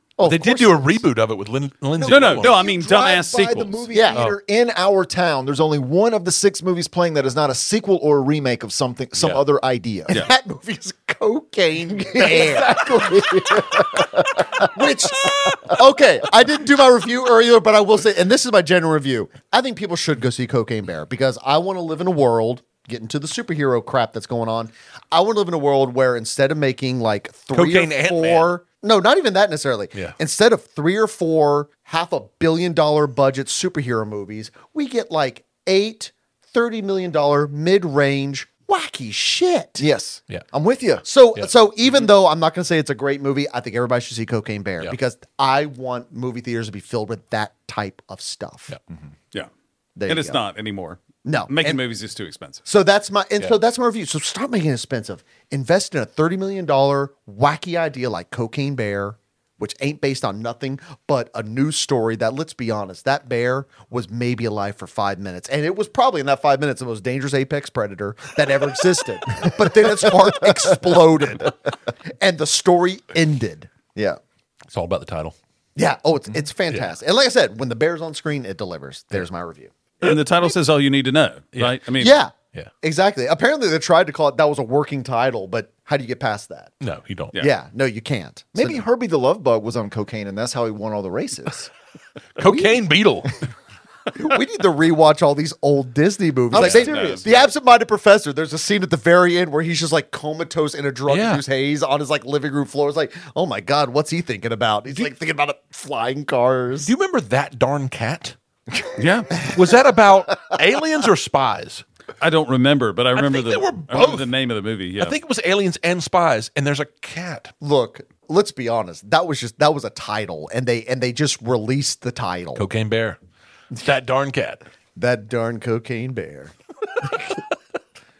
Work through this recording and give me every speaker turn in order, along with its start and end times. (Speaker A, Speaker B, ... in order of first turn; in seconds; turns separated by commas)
Speaker A: 0.2-0.8, Speaker B: 0.2-2.6, Speaker C: 2.0-10.2, Speaker D: 2.0-3.8, Speaker A: 3.9-4.3, Speaker B: 4.1-4.4, Speaker B: 9.2-9.4, Speaker A: 10.1-39.9, Speaker C: 12.1-15.7, Speaker B: 27.5-28.5, Speaker C: 39.8-41.0, Speaker A: 41.0-48.7, Speaker A: 50.0-50.4, Speaker D: 50.1-52.6, Speaker A: 51.2-51.7, Speaker A: 52.6-71.5, Speaker A: 72.2-74.2, Speaker B: 74.7-75.3, Speaker A: 75.8-80.2, Speaker D: 80.0-82.2, Speaker B: 81.5-81.8, Speaker A: 82.0-86.7, Speaker B: 86.8-87.3, Speaker A: 87.4-88.8, Speaker C: 88.5-91.7, Speaker A: 89.5-91.5, Speaker B: 92.4-93.3, Speaker A: 92.4-92.7, Speaker A: 94.1-106.9, Speaker B: 96.5-97.2, Speaker D: 96.5-97.2, Speaker C: 96.8-97.5, Speaker B: 101.1-101.4, Speaker B: 106.8-108.3, Speaker D: 109.0-109.4, Speaker B: 109.4-111.8, Speaker D: 112.2-115.2, Speaker B: 113.2-114.3, Speaker B: 115.0-117.5, Speaker A: 117.6-122.6, Speaker B: 122.5-123.2, Speaker B: 123.7-124.6, Speaker A: 125.0-127.4